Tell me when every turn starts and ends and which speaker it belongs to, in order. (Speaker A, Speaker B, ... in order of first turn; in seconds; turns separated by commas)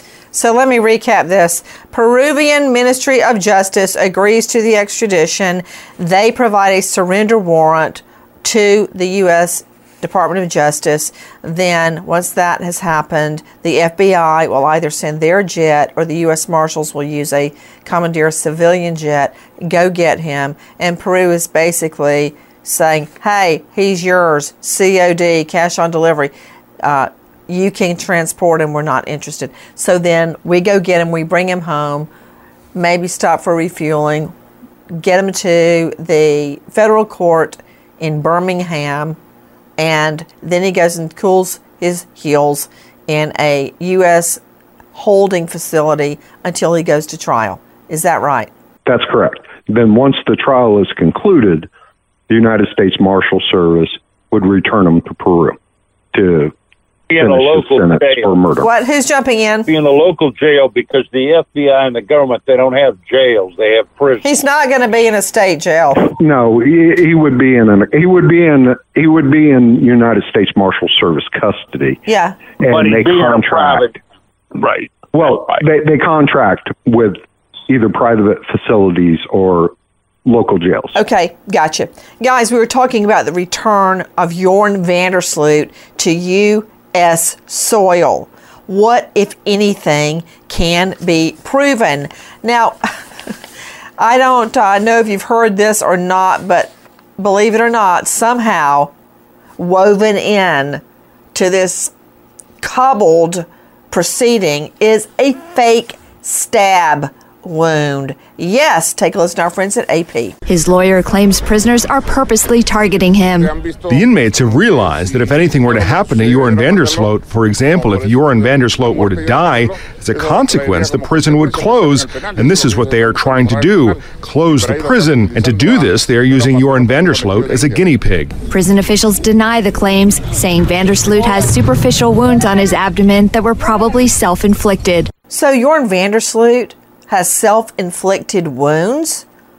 Speaker A: 0.3-32.1, Speaker A: 32.8-34.3, Speaker A: 34.9-39.2, Speaker A: 39.8-44.4, Speaker A: 45.0-48.5, Speaker B: 48.9-51.7, Speaker B: 52.3-55.6, Speaker B: 56.1-56.5, Speaker C: 57.1-58.4, Speaker B: 57.2-58.7, Speaker A: 58.6-59.7, Speaker C: 59.7-64.3, Speaker A: 64.2-66.1, Speaker B: 66.2-72.0, Speaker A: 72.1-72.4, Speaker B: 72.6-73.9, Speaker C: 72.7-74.0, Speaker C: 74.5-75.6, Speaker B: 75.1-79.7, Speaker B: 80.3-81.0, Speaker A: 81.0-92.9, Speaker A: 94.0-98.9, Speaker A: 99.6-100.8, Speaker A: 101.3-101.9, Speaker A: 102.6-110.4, Speaker D: 110.5-113.5, Speaker E: 113.9-128.4, Speaker D: 128.5-135.1, Speaker A: 135.3-139.2